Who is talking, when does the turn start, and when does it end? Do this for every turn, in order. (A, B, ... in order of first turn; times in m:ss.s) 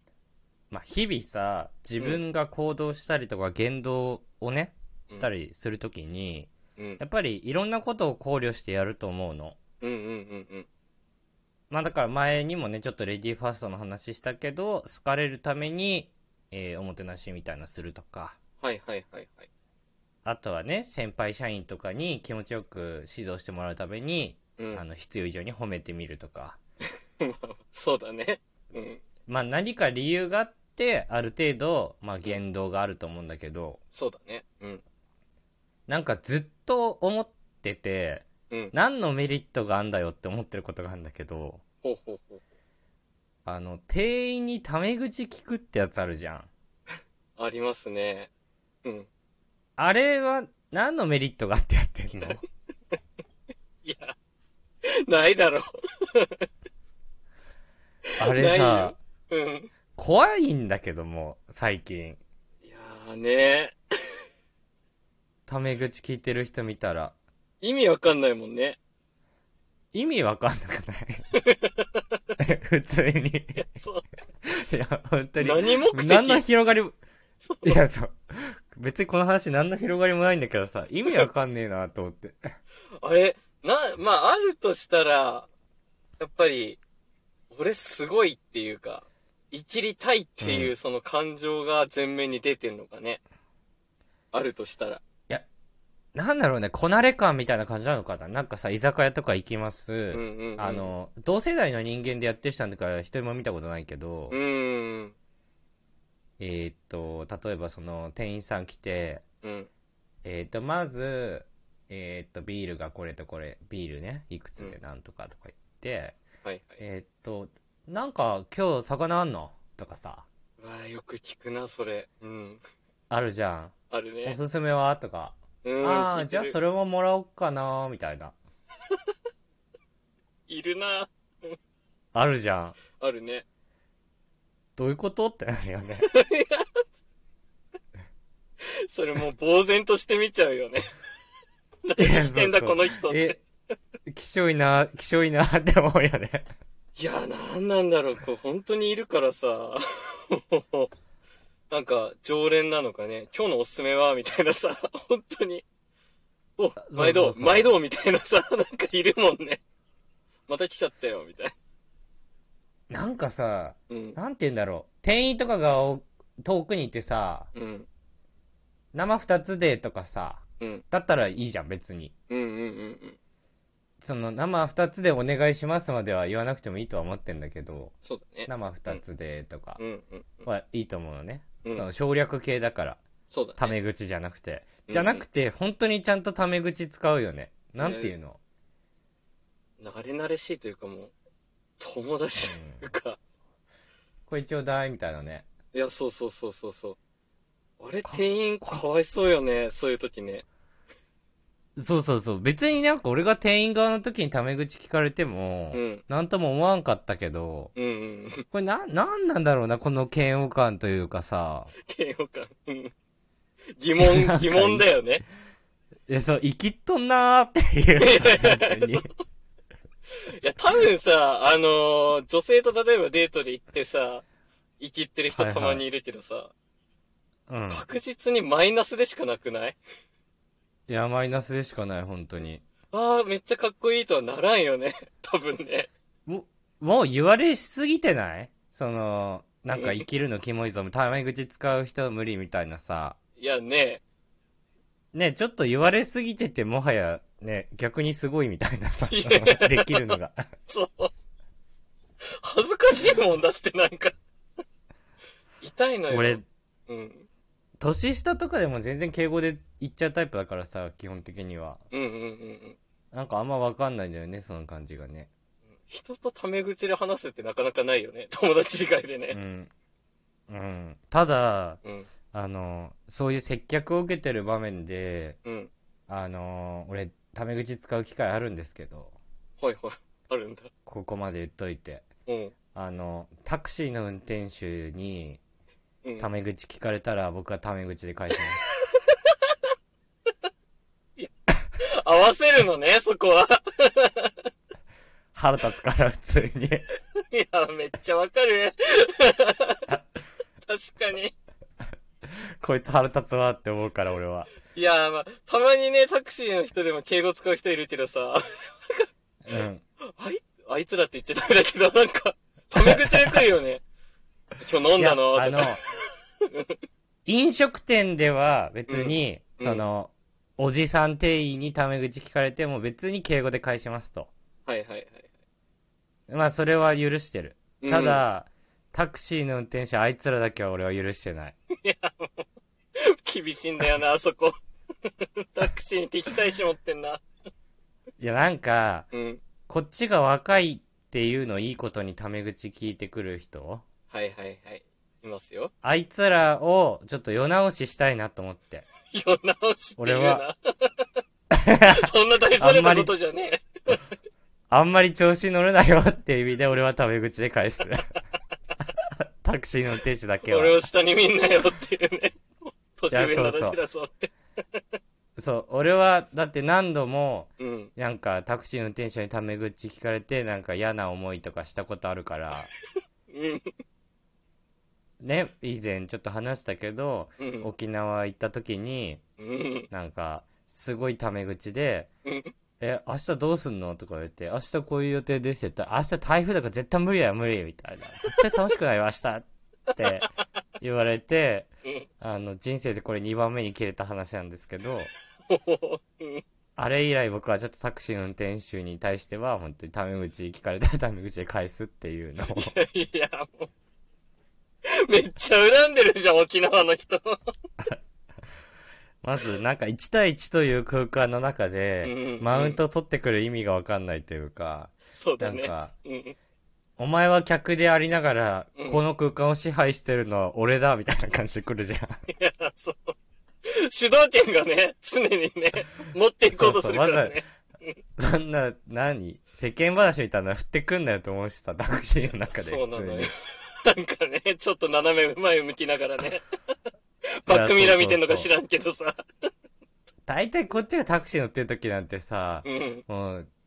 0:00.7-0:09.6 A
0:09.8-0:10.7 B
0:11.7-0:18.4 A
0:18.6-0:19.5 B
0:20.2-0:26.6 A
0:27.2-0:29.0 B
0:29.3-0:33.8 A
0:33.9-0:34.8 B
0:35.9-0:41.6 A
0:41.8-0:42.4 B
0:43.4-0:46.5 A
0:47.4-0:48.3 B
0:49.8-0:52.4 A
0:53.8-0:54.1 B
0:54.8-0:56.4 B
0:58.2-0:58.9 A
0:58.3-0:59.7 B
1:00.0-1:02.2 A
1:02.6-1:03.8 B
1:05.5-1:07.1 A
1:07.6-1:08.8 B
1:09.9-1:11.2 A
1:11.4-1:12.0 B
1:12.4-1:13.7 A
1:13.6-1:14.0 B
1:14.4-1:17.0 A
1:15.4-1:16.4 B
1:17.4-1:17.8 B
1:17.6-1:22.5 A
1:23.0-1:25.5 B
1:26.2-1:26.8 B
1:27.5-1:33.2 B
1:30.4-1:30.7 A
1:34.3-1:35.0 B
1:36.1-1:44.4 A
1:40.1-1:40.9 B
1:44.3-1:45.1 B
1:46.4-1:49.2 A
1:49.4-1:49.7 B
1:50.2-1:56.2 A
1:56.4-1:56.8 B
1:56.8-2:00.2 A
2:00.6-2:02.6 B
2:03.1-2:03.7 A
2:03.9-2:04.4 B
2:04.2-2:08.3 A
2:05.6-2:06.6 B
2:10.5-2:11.6 B
2:12.1-2:12.8 A
2:13.0-2:13.4 B
2:14.8-2:16.1 A
2:16.1-2:16.8 B
2:18.9-2:20.9 B
2:21.8-2:23.4 B
2:22.0-2:23.4 A
2:24.1-2:26.5 A
2:27.0-2:30.9 B
2:31.7-2:35.6 B
2:36.6-2:39.6 B
2:36.8-2:37.7 A
2:40.5-2:41.5 B
2:42.9-2:47.5 A
2:43.9-2:44.2 B
2:47.5-2:47.9 B
2:48.9-2:52.1 A
2:52.3-2:53.2 B
2:54.0-2:57.9 A
2:58.0-2:59.0 B
2:58.5-2:59.8 A
2:59.8-3:00.4 B
3:00.4-3:03.0 A
3:03.3-3:03.8 B
3:03.6-3:08.4 A
3:04.9-3:05.2 B
3:07.8-3:08.1 B
3:09.8-3:11.1 B
3:11.8-3:13.2 B
3:12.4-3:12.8 A
3:14.3-3:15.4 A
3:15.7-3:17.0 B
3:17.8-3:20.4 B
3:18.0-3:18.8 A
3:21.8-3:27.7 A
3:25.7-3:26.0 B
3:27.8-3:28.4 B
3:28.5-3:31.7 A
3:31.8-3:32.9 B
3:33.8-3:35.2 B
3:34.0-3:34.9 A
3:36.1-3:39.1 A
3:38.0-3:39.0 B
3:40.4-3:44.2 B
3:44.8-3:46.5 B
3:45.3-3:45.8 A
3:47.5-3:47.8 A
3:47.7-3:49.8 B
3:50.9-3:52.6 A
3:52.9-3:55.9 B
3:56.2-4:03.2 A
3:59.7-4:00.0 B
4:03.4-4:04.0 B
4:05.1-4:10.5 A
4:09.1-4:10.2 B
4:10.7-4:11.1 B
4:12.4-4:14.1 B
4:15.6-4:17.3 B
4:16.1-4:16.4 A
4:17.8-4:21.8 A
4:21.9-4:22.8 B
4:23.1-4:25.3 A
4:25.8-4:29.4 B
4:29.3-4:29.7 A
4:30.5-4:31.8 A
4:31.8-4:32.1 B
4:32.3-4:35.4 A
4:35.4-4:35.7 B
4:36.1-4:39.2 A
4:39.6-4:40.7 B
4:40.8-4:42.0 A
4:42.2-4:42.5 B
4:42.7-4:45.4 A
4:46.2-4:48.6 A
4:48.9-4:49.6 B
4:51.2-4:54.3 B
4:55.3-4:56.8 A
4:57.3-4:59.9 B
5:00.6-5:01.3 B
5:02.6-5:04.5 A
5:04.7-5:09.1 B
5:09.4-5:09.8 A
5:10.1-5:13.8 B
5:12.7-5:13.4 A
5:14.6-5:15.9 B
5:15.0-5:15.8 A
5:16.5-5:16.8 B
5:17.2-5:24.3 A
5:18.9-5:19.8 B
5:24.6-5:25.3 B
5:26.3-5:31.6 A
5:27.8-5:28.2 B
5:31.8-5:34.6 B
5:35.2-5:37.2 B
5:38.2-5:39.1 A
5:39.1-5:39.4 B
5:39.7-5:43.8 A
5:44.1-5:45.7 B
5:45.8-5:48.9 A
5:49.1-5:51.0 B
5:50.0-5:50.4 A
5:51.5-5:52.0 A
5:51.8-5:53.6 B
5:52.6-5:53.1 A
5:54.7-5:58.1 A
5:59.4-6:00.8 A
6:00.5-6:04.8 B
6:03.1-6:03.8 A
6:05.4-6:12.7 A
6:07.6-6:07.9 B
6:13.3-6:13.7 B
6:15.2-6:19.2 A
6:17.4-6:17.7 B
6:19.4-6:19.9 B
6:19.9-6:22.1 A
6:22.2-6:22.5 B
6:22.8-6:30.3 A
6:30.8-6:35.1 A
6:35.5-6:36.4 B
6:36.8-6:42.8 A
6:42.6-6:43.7 B
6:44.9-6:47.4 B
6:49.2-6:55.9 A
6:52.0-6:52.8 B
6:55.1-6:56.3 B
6:57.0-7:02.3 A
6:58.8-6:59.0 B
7:02.3-7:08.0 B
7:06.5-7:07.4 A
7:08.2-7:13.3 A
7:12.5-7:16.4 B
7:17.4-7:19.2 B
7:17.5-7:18.5 A
7:20.2-7:23.5 A
7:22.6-7:23.0 B